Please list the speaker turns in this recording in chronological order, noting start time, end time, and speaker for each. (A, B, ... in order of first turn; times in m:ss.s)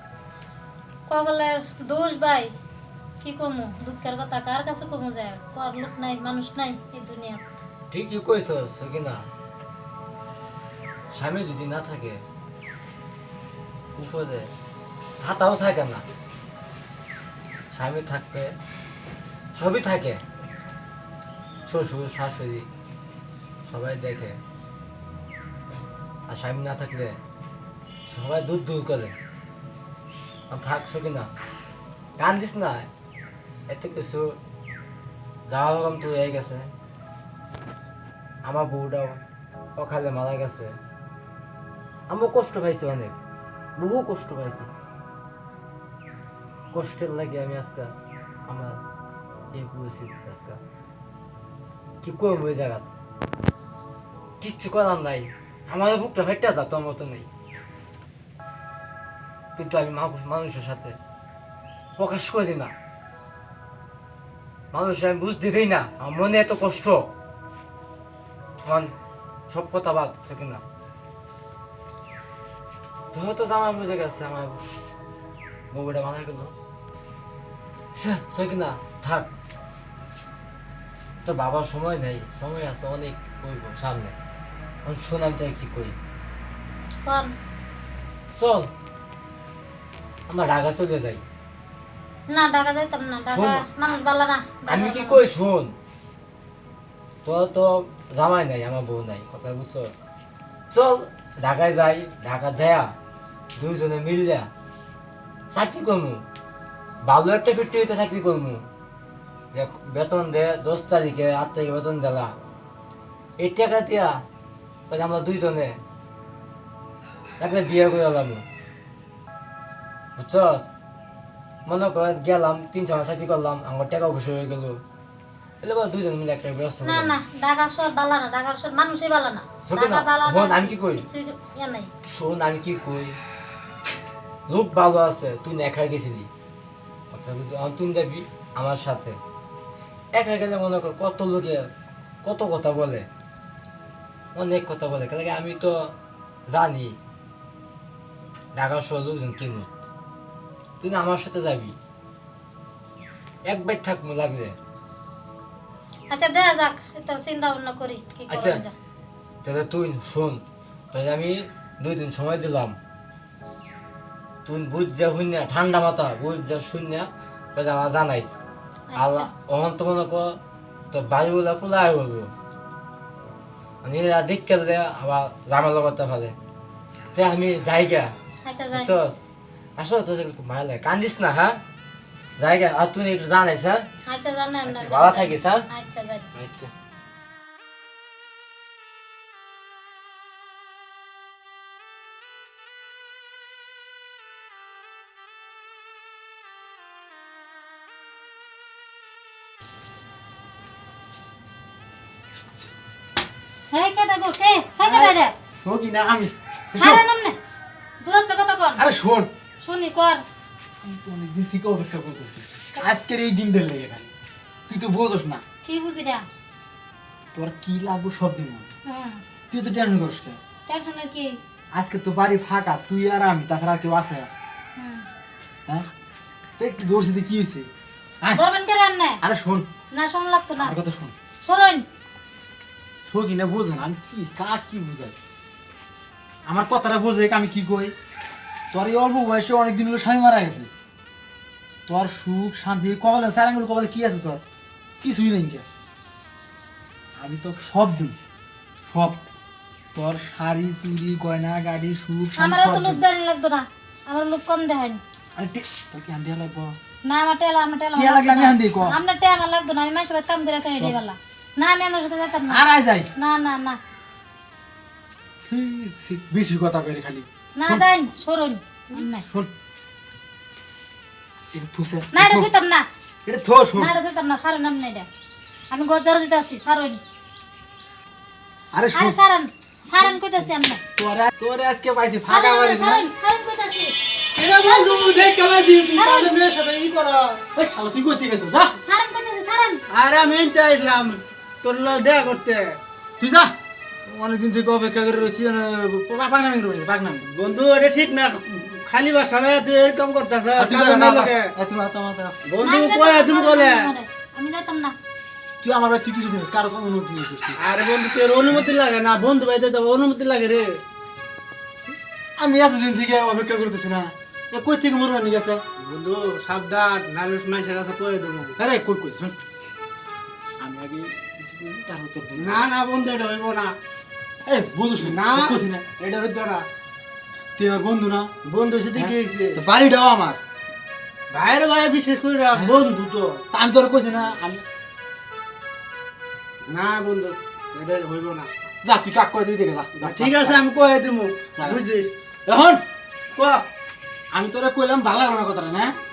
0:01.1-0:02.5 A
0:03.2-0:07.5 A
0:07.9-0:09.2 B
0:11.1-0:12.2 B
0:14.0-0:14.5 B
0:15.2-0:16.0 B
0:17.7-0:18.5 B
0:19.6-0:20.2 B
0:21.7-0:22.7 B
0:23.7-0:24.4 B
0:26.3-0:27.2 B
0:28.1-0:29.2 B
0:30.5-0:31.3 B
0:32.2-0:32.9 B
0:33.7-0:34.4 B
0:35.5-0:36.7 B
0:38.4-0:39.2 B
0:39.8-0:40.8 B
0:42.1-0:43.2 B
0:43.8-0:44.7 B
0:46.7-0:47.9 B
0:48.5-0:48.8 B
0:49.5-0:50.6 B
0:52.0-0:52.9 B
0:54.4-0:57.3 B
0:59.6-1:01.0 B
1:02.0-1:02.7 B
1:04.7-1:07.1 B
1:08.6-1:08.9 B
1:09.5-1:10.6 B
1:13.1-1:14.6 B
1:15.7-1:16.5 B
1:17.9-1:19.3 B
1:21.2-1:24.2 B
1:24.8-1:26.0 B
1:27.0-1:27.3 A
1:28.3-1:28.7 B
1:30.3-1:31.2 B
1:32.3-1:35.3 A
1:33.3-1:33.7 B
1:34.7-1:35.7 B
1:37.2-1:40.0 B
1:40.7-1:42.9 B
1:43.6-1:44.5 B
1:45.5-1:46.2 B
1:47.0-1:48.6 B
1:49.5-1:52.3 B
1:53.4-1:54.2 B
1:54.9-1:55.8 B
1:57.4-1:58.4 B
2:00.2-2:00.7 B
2:01.7-2:04.8 B
2:05.6-2:07.2 B
2:06.8-2:11.9 A
2:09.7-2:11.0 B
2:12.1-2:13.2 B
2:14.5-2:16.3 B
2:17.1-2:19.2 B
2:20.1-2:21.7 B
2:22.2-2:23.1 B
2:24.4-2:25.9 B
2:26.5-2:27.0 B
2:28.6-2:29.7 B
2:30.8-2:31.8 B
2:33.5-2:34.6 B
2:36.1-2:38.8 A
2:38.3-2:38.6 B
2:39.4-2:40.4 B
2:40.9-2:42.8 B
2:44.4-2:48.4 B
2:48.9-2:49.3 A
2:49.0-2:50.4 B
2:50.9-2:52.3 B
2:53.8-2:56.4 B
2:57.1-2:58.1 B
2:58.4-2:58.9 A
2:58.7-2:59.2 B
2:59.8-3:01.6 B
3:02.4-3:03.8 B
3:04.1-3:06.3 A
3:04.6-3:05.6 B
3:06.4-3:06.7 B
3:23.7-3:25.3 A
3:24.8-3:27.0 C
3:26.7-3:27.4 A
3:28.0-3:28.8 A
3:28.8-3:29.3 C
3:29.6-3:30.2 A
3:30.8-3:34.1 C
3:34.7-3:35.4 C
3:35.6-3:36.3 A
3:37.3-3:38.7 C
3:38.9-3:39.2 A
3:39.5-3:40.4 C
3:40.7-3:41.4 A
3:41.7-3:44.3 C
3:44.8-3:45.0 A
3:46.6-3:47.7 C
3:48.3-3:49.2 A
3:49.2-3:49.7 C
3:49.9-3:50.8 A
3:50.6-3:51.2 C
3:51.4-3:51.8 A
3:53.0-3:55.2 C
3:56.5-3:57.9 C
3:58.7-4:00.7 C
4:01.9-4:04.4 C
4:05.0-4:05.6 C
4:07.2-4:08.2 C
4:08.9-4:09.2 C
4:09.9-4:13.0 C
4:12.4-4:15.0 A
4:15.4-4:16.8 C
4:17.1-4:22.6 A
4:17.9-4:19.0 C
4:22.5-4:23.1 C
4:23.2-4:23.8 A
4:25.5-4:27.9 C
4:27.6-4:29.2 A
4:28.9-4:29.5 C
4:31.5-4:32.5 C
4:32.1-4:32.9 A
4:33.2-4:34.0 C
4:33.8-4:35.1 A
4:35.7-4:37.0 A
4:38.7-4:39.2 C
4:39.0-4:40.8 A
4:41.0-4:43.1 C
4:42.2-4:44.0 A
4:44.4-4:47.0 D
4:44.6-4:45.2 A
4:46.0-4:46.3 A
4:46.3-4:48.8 C
4:48.8-4:49.8 A
4:49.9-4:52.8 D
4:53.2-4:53.5 C
4:54.1-4:57.3 C
4:57.3-5:01.5 D
5:00.6-5:02.4 C
5:02.4-5:03.9 D
5:02.6-5:05.0 A
5:05.6-5:07.6 C
5:07.6-5:10.8 D
5:12.4-5:15.6 C
5:15.8-5:18.6 D
5:18.6-5:19.4 C
5:20.6-5:22.7 C
5:22.4-5:23.8 D
5:24.4-5:25.8 C
5:25.0-5:26.7 D
5:27.6-5:28.3 C
5:28.4-5:29.6 D
5:29.0-5:30.4 C
5:31.3-5:33.4 D
5:33.5-5:34.6 C
5:36.6-5:38.5 D
5:38.8-5:40.6 C
5:40.0-5:42.1 D
5:42.5-5:42.8 C
5:43.4-5:43.6 D
5:44.3-5:46.0 C